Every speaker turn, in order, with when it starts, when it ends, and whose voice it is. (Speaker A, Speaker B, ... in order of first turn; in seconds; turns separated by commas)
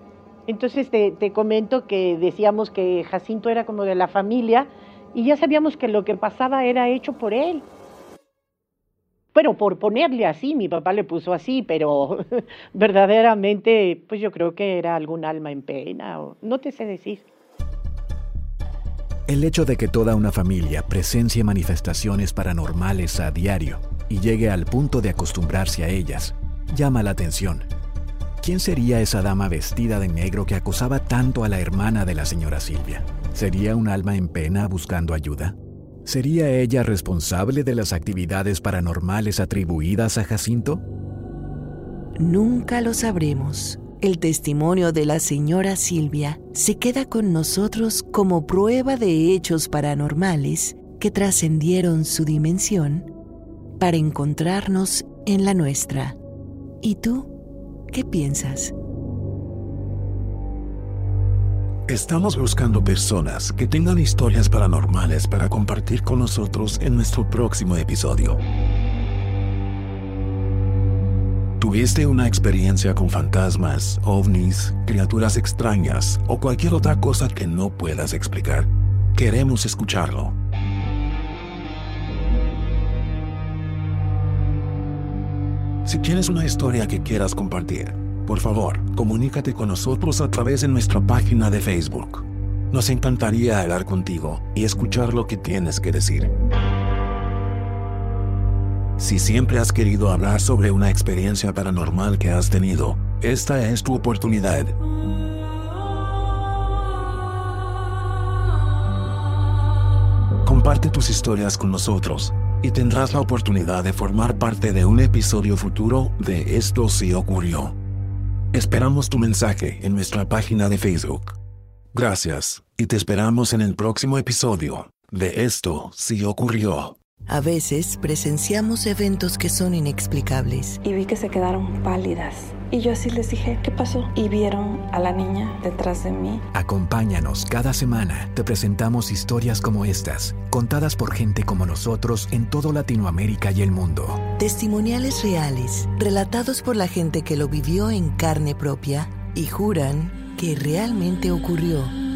Speaker A: 0.5-7.7, Speaker A: 9.3-12.2, Speaker A: 12.7-17.2, Speaker B: 19.3-27.7, Speaker B: 28.4-40.8, Speaker C: 42.2-53.1, Speaker C: 53.8-56.2, Speaker C: 56.8-57.3, Speaker C: 57.9-58.7, Speaker D: 61.9-68.4, Speaker D: 71.6-80.3, Speaker D: 85.8-96.3, Speaker D: 99.0-104.8, Speaker D: 110.4-117.8, Speaker D: 118.5-121.4, Speaker D: 121.9-127.0, Speaker C: 127.3-130.8, Speaker E: 130.8-136.4, Speaker B: 136.5-144.2, Speaker C: 144.4-151.9